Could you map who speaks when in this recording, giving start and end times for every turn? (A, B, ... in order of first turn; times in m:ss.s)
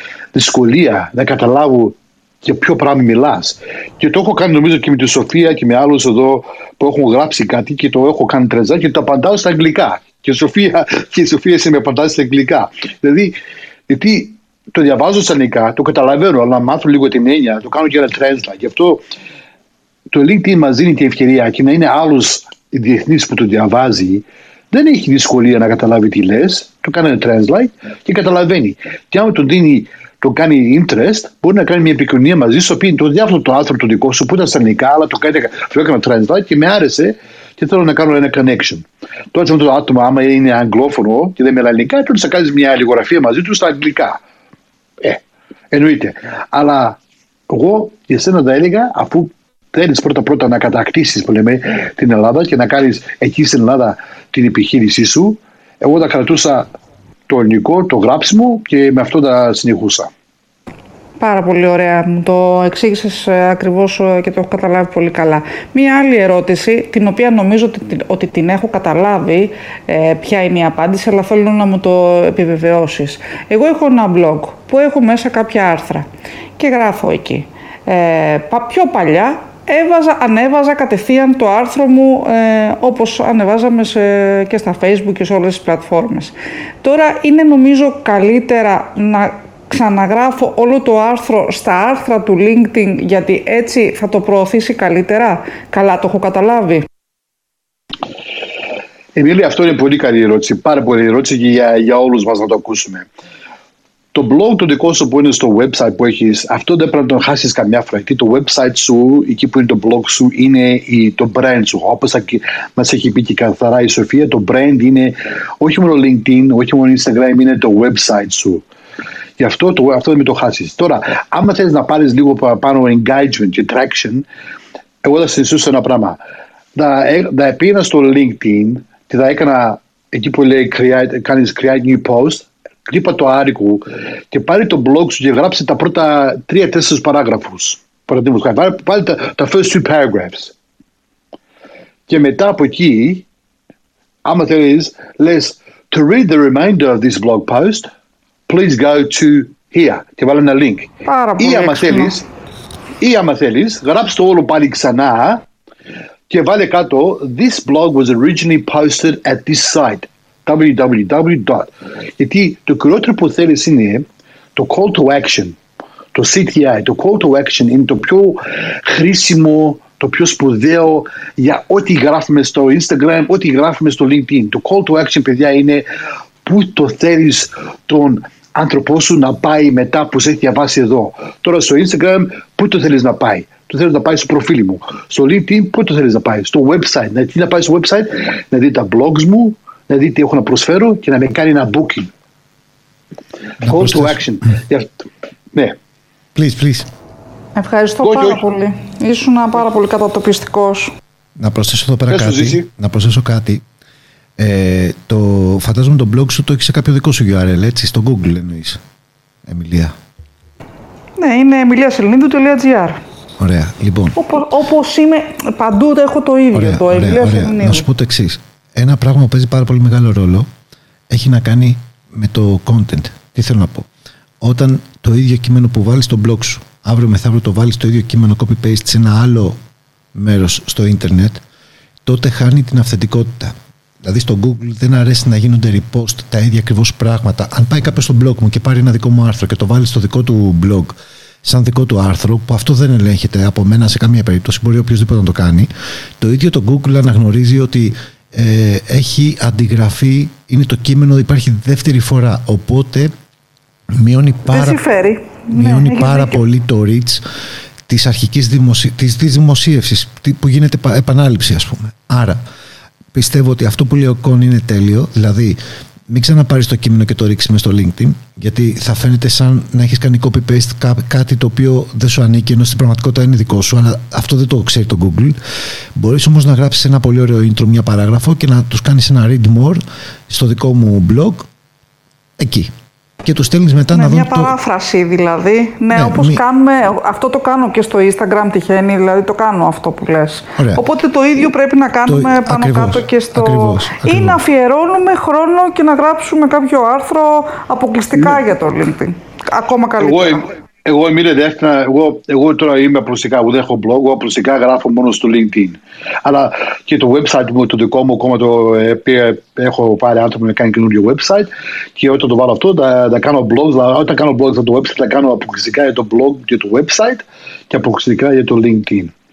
0:00.3-0:13.4 A
0:13.9-0:19.0 A
0:20.1-0:44.2 A
0:45.0-0:47.0 A
0:47.5-0:56.7 A
0:57.3-1:00.1 A
1:01.2-1:16.1 B
1:16.6-1:36.9 B
1:39.1-1:43.1 A
1:44.1-1:58.6 A
1:59.4-2:04.2 A
2:05.0-2:06.2 A
2:06.8-2:20.5 A
2:22.1-2:23.2 A
2:24.2-2:27.9 A
2:28.5-2:32.2 A
2:31.1-2:32.2 B
2:33.0-2:35.4 A
2:36.3-2:45.6 A
2:46.1-2:55.8 A
2:56.4-3:12.1 A
3:13.6-3:14.9 A
3:13.6-3:14.2 C
3:16.3-3:16.9 C
3:17.6-3:20.9 B
3:18.0-3:18.4 A
3:21.4-3:23.6 C
3:22.1-3:22.6 A
3:24.4-3:28.8 C
3:29.4-3:29.9 C
3:31.2-3:33.0 B
3:33.4-3:34.2 C
3:34.2-3:37.8 B
3:36.5-3:40.5 C
3:41.1-3:43.9 C
3:44.4-3:49.6 C
3:50.1-3:51.4 C
3:52.0-4:13.1 C
4:14.0-4:14.8 C
4:14.5-4:16.4 B
4:15.5-4:17.2 C
4:17.9-4:22.4 C
4:23.1-4:25.6 C
4:26.1-4:35.4 C
4:36.0-4:41.5 C
4:42.4-4:42.7 C
4:43.2-4:44.6 C
4:43.9-5:00.5 B
4:45.9-4:46.4 C
4:50.6-4:50.8 C
4:52.0-4:54.4 C
5:00.0-5:19.1 A